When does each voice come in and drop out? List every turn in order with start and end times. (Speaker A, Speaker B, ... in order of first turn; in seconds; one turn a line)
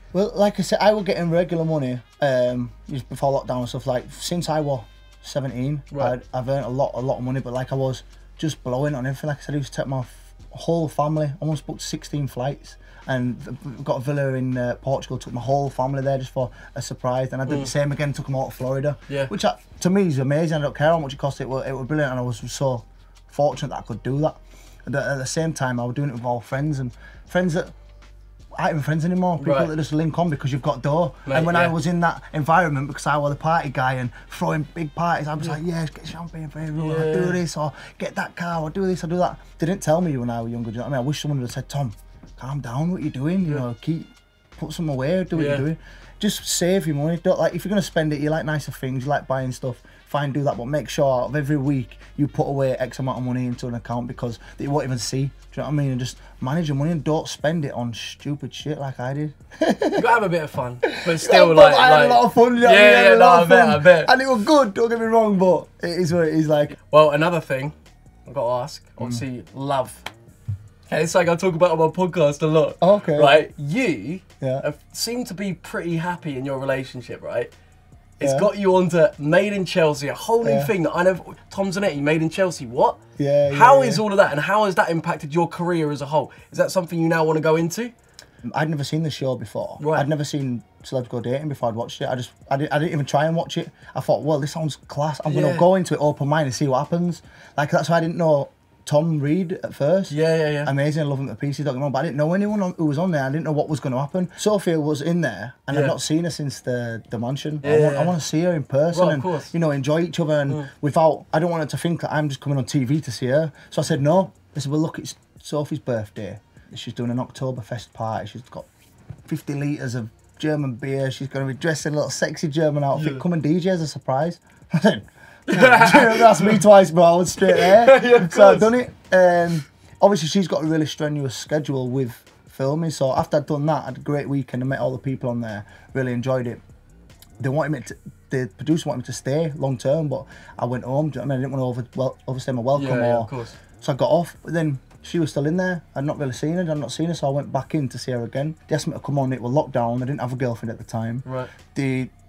Speaker A: 0.1-27.7
Speaker B: 17.4-17.7
Speaker A: 28.6-60.0
Speaker B: 29.4-29.7
Speaker B: 31.2-31.7
Speaker B: 36.8-37.4
Speaker B: 45.3-45.6
Speaker B: 59.9-64.1
Speaker A: 60.8-66.8
Speaker B: 66.8-67.7
Speaker B: 68.2-70.1
Speaker B: 70.9-77.5
Speaker A: 72.8-73.4
Speaker B: 78.2-87.9
Speaker A: 78.2-78.5
Speaker A: 80.4-80.7
Speaker A: 83.2-84.0
Speaker A: 88.5-118.7
Speaker B: 89.8-90.1
Speaker B: 95.2-95.7
Speaker B: 100.1-100.7
Speaker B: 105.7-106.0
Speaker B: 107.6-108.2
Speaker B: 108.9-109.5
Speaker A: 119.3-136.6
Speaker B: 122.9-123.2
Speaker B: 125.5-126.6
Speaker B: 127.4-128.7
Speaker A: 137.4-152.1
Speaker B: 142.7-143.6
Speaker B: 151.2-151.5